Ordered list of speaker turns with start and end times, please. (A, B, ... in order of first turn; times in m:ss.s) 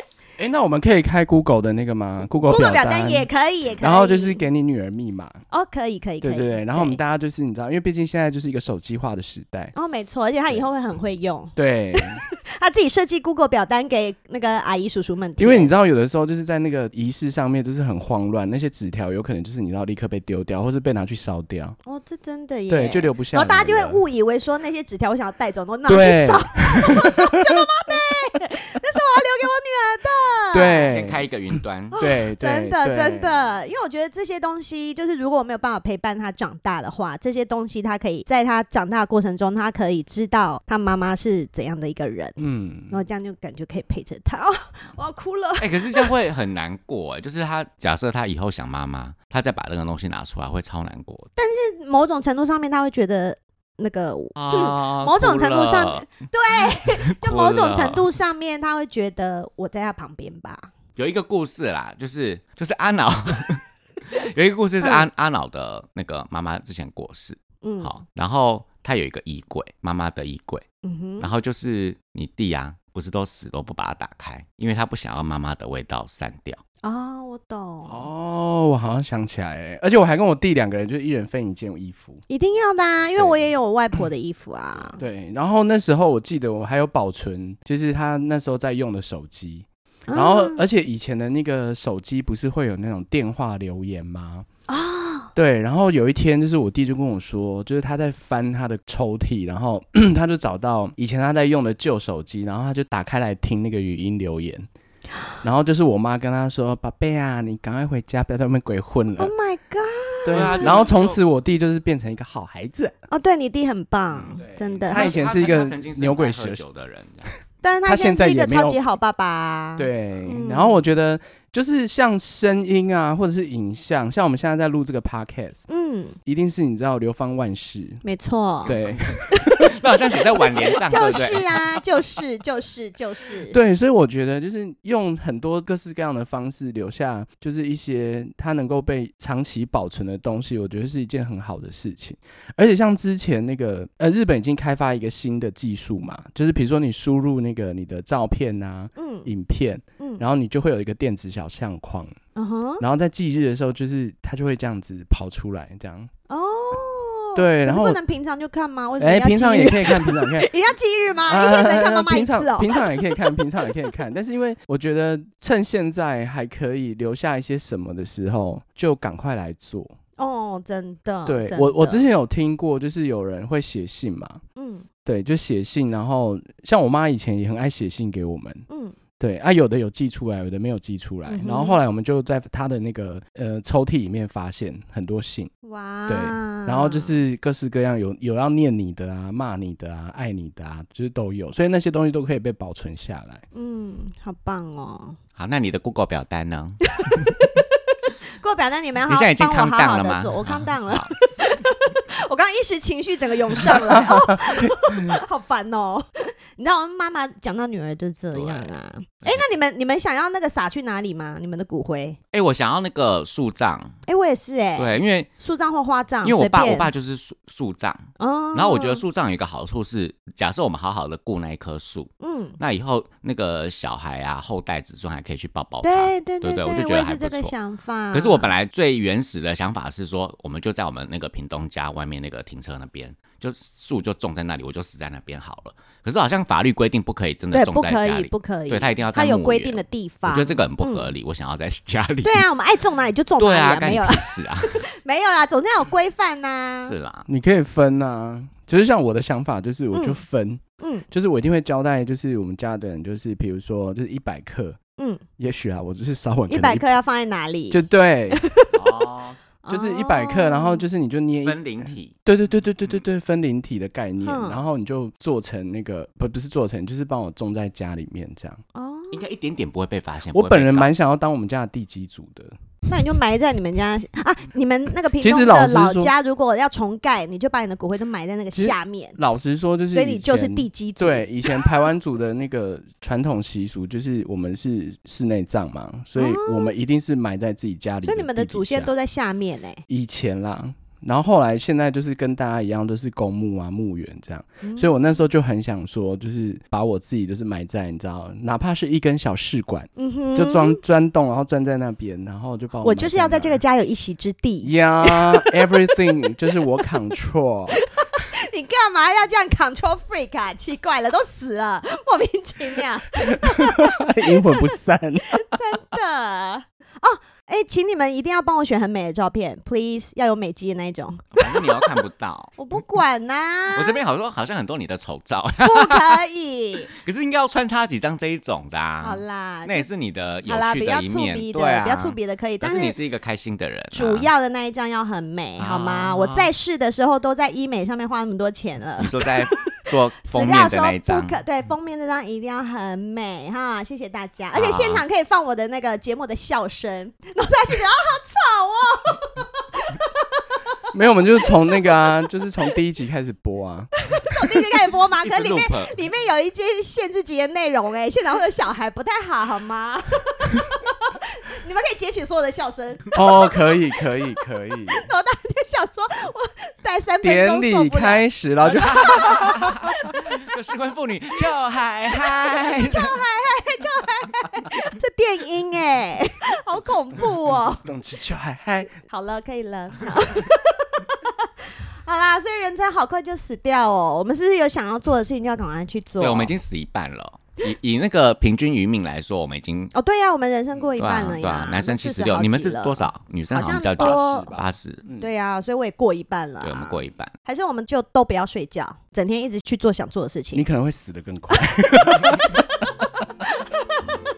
0:00.4-0:03.3 A
0:02.5-0:04.4 B
0:03.8-0:05.4 A
0:05.5-0:07.0 B
0:06.2-0:09.7 A
0:09.8-0:15.7 B
0:11.6-0:12.2 A
0:15.4-0:21.8 A
0:21.8-0:30.9 B
0:22.7-0:24.0 A
0:25.9-0:28.1 A
0:30.5-0:33.5 A
0:30.7-0:32.0 C
0:31.9-0:46.1 B
0:42.4-0:43.0 A
0:45.6-0:51.3 C
0:51.4-1:00.7 B
0:54.4-0:58.1 C
1:01.0-1:10.6 C
1:04.8-1:05.1 B
1:07.6-1:08.0 B
1:10.8-1:11.3 B
1:11.2-1:16.6 C
1:16.8-1:18.1 B
1:17.9-1:22.2 A
1:22.3-1:25.0 B
1:23.2-1:23.4 A
1:25.0-1:34.5 A
1:30.1-1:30.6 B
1:34.7-1:35.3 B
1:35.4-1:44.7 A
1:45.4-1:49.3 A
1:49.2-1:50.8 B
1:50.3-1:52.9 A
1:50.3-1:51.2 C
1:53.1-1:55.2 B
1:54.1-1:57.3 C
1:54.9-1:56.6 A
1:57.6-2:00.8 B
1:57.9-1:58.8 A
1:59.8-2:05.7 A
2:05.7-2:06.2 B
2:06.3-2:08.0 A
2:08.0-2:08.8 B
2:08.6-2:09.7 A
2:08.8-2:11.8 C
2:09.3-2:13.6 B
2:13.5-2:32.1 A
2:29.0-2:29.3 B
2:30.0-2:30.2 B
2:32.4-2:32.8 B
2:32.8-2:36.1 A
2:36.3-2:43.7 B
2:37.4-2:38.0 A
2:39.0-2:40.5 A
2:41.3-2:49.9 A
2:50.2-2:52.0 B
2:51.3-2:54.4 A
2:54.6-2:54.9 B
2:55.0-2:58.7 A
2:58.7-2:59.0 B
2:59.2-3:05.5 A
3:01.3-3:01.8 B
3:05.6-3:07.1 B
3:06.1-3:13.4 A
3:13.5-3:15.2 B
3:15.4-3:17.3 C
3:17.0-3:17.7 B
3:18.4-3:32.2 B
3:19.1-3:21.1 C
3:28.3-3:29.5 C
3:32.3-3:34.0 C
3:34.1-3:36.9 B
3:34.8-3:35.3 C
3:36.2-3:47.5 C
3:38.2-3:39.0 B
3:42.2-3:42.6 B
3:45.8-3:48.5 B
3:48.1-4:02.5 C
3:57.5-4:01.1 B
4:02.2-4:07.0 B
4:03.4-4:04.8 C
4:06.8-4:07.3 C
4:07.3-4:14.8 A
4:09.9-4:10.2 B
4:10.8-4:11.1 B
4:15.4-4:16.8 A
4:16.5-4:18.8 B
4:17.7-4:18.4 A
4:18.7-4:19.4 C
4:19.6-4:20.8 B
4:19.7-4:28.6 A
4:21.4-4:22.1 C
4:24.2-4:24.6 B
4:28.8-4:29.3 B
4:29.1-4:30.9 C
4:30.3-4:32.6 A
4:32.9-4:39.2 B
4:35.2-4:36.1 A
4:38.5-4:48.9 A
4:39.9-4:41.6 B
4:46.2-4:46.7 B
4:48.0-4:49.8 B
4:49.9-5:03.6 A
4:54.6-4:54.9 B
5:00.0-5:00.8 B
5:02.8-5:06.3 B
5:04.6-5:07.8 A
5:07.7-5:14.7 B
5:13.2-5:15.4 A
5:15.3-5:22.0 B
5:21.4-5:22.5 C
5:22.6-5:24.0 B
5:23.7-5:26.2 C
5:25.6-5:26.9 B
5:26.9-5:34.3 C
5:29.0-5:29.9 B
5:30.5-5:33.0 B
5:33.9-5:50.8 B
5:35.6-5:36.5 C
5:39.0-5:41.4 C
5:44.5-5:45.0 C
5:50.9-5:54.3 A
5:54.0-6:03.6 B
5:55.2-5:55.9 C
6:03.1-6:05.1 A
6:04.9-6:08.3 B
6:07.2-6:09.8 A
6:08.7-6:13.2 C
6:08.9-6:09.8 B
6:12.3-6:17.8 B
6:17.5-6:19.0 A
6:19.1-6:26.6 B
6:26.2-6:29.9 C
6:29.9-6:34.5 B
6:31.0-6:35.1 C
6:34.0-6:35.3 A
6:35.2-6:40.7 B
6:36.6-6:37.3 C
6:40.5-6:43.1 A
6:41.5-6:44.1 B